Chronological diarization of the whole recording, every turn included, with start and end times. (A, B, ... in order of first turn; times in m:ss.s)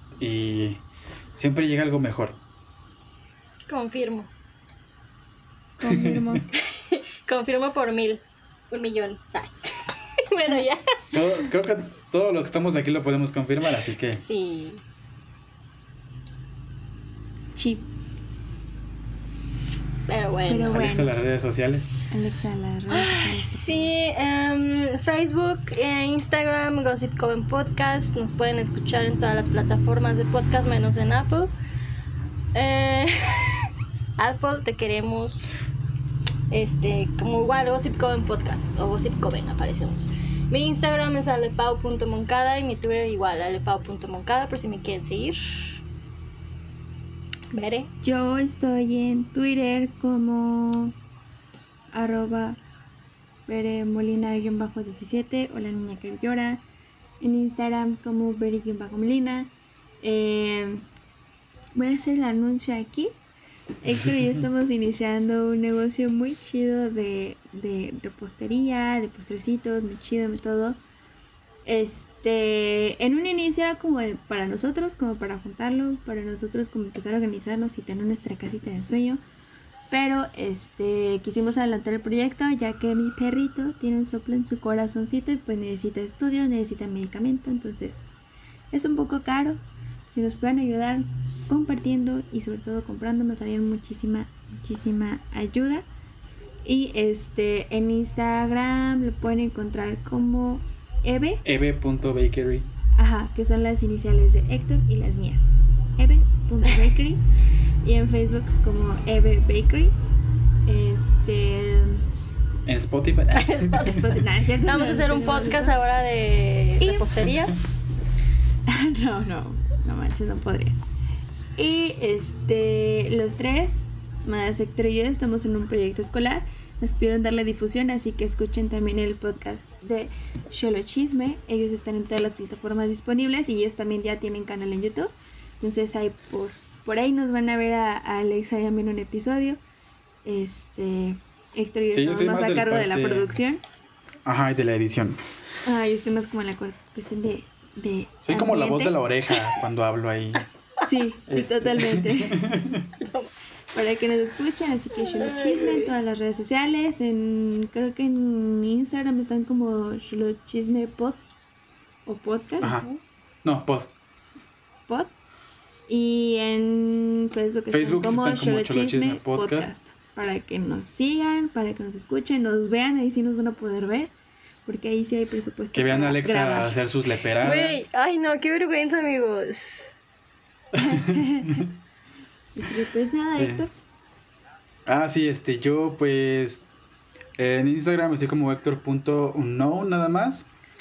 0:00.2-0:00.8 A
0:01.3-0:02.4 A
0:03.7-0:04.3 B
0:05.8-0:06.5 C
0:05.9-0:06.4 A
0:06.7-0:11.0 B
0:11.1-0:14.2 A
0:14.2-0:14.8 B
0:17.6-0:17.9 C
0:20.1-0:20.9 B
0:20.5-0:21.1 C
0:20.7-0:21.9 A
0:22.1-0:23.9 C
0:22.9-0:31.5 B
0:32.5-0:35.5 B
0:36.5-0:45.8 B
0:47.5-0:47.9 B
0:48.0-0:51.0 C
0:51.9-0:52.6 C
0:53.5-0:56.6 C
0:57.2-0:59.5 C
1:00.0-1:00.8 C
1:01.7-1:03.1 C
1:03.8-1:10.8 C
1:11.6-1:19.2 C
1:19.9-1:28.1 C
1:28.7-1:35.9 C
1:36.6-1:41.4 C
1:41.4-1:42.7 A
1:43.0-1:47.2 C
1:47.8-1:50.0 C
1:50.7-1:52.0 C
1:52.7-1:54.0 A
1:53.3-1:57.5 B
1:53.8-1:55.8 C
1:56.8-1:57.2 C
1:58.7-2:00.8 C
2:01.6-2:19.6 C
2:20.2-2:23.6 C
2:21.9-2:23.3 A
2:24.3-2:25.2 A
2:25.6-2:29.0 C
2:28.2-2:30.5 A
2:30.8-2:32.4 C
2:31.3-2:32.9 A
2:33.0-2:33.3 B
2:33.7-2:41.2 C
2:35.1-2:35.9 B
2:42.1-2:42.8 C
2:43.4-2:43.9 A
2:45.9-2:54.1 C
2:47.7-2:49.7 A
2:54.7-2:56.8 C
2:55.7-2:57.8 A
2:57.4-2:59.9 B
3:00.7-3:01.7 A
3:00.8-3:01.6 C
3:02.6-3:03.7 C
3:03.4-3:03.7 A
3:04.9-3:06.7 A
3:07.4-3:10.5 A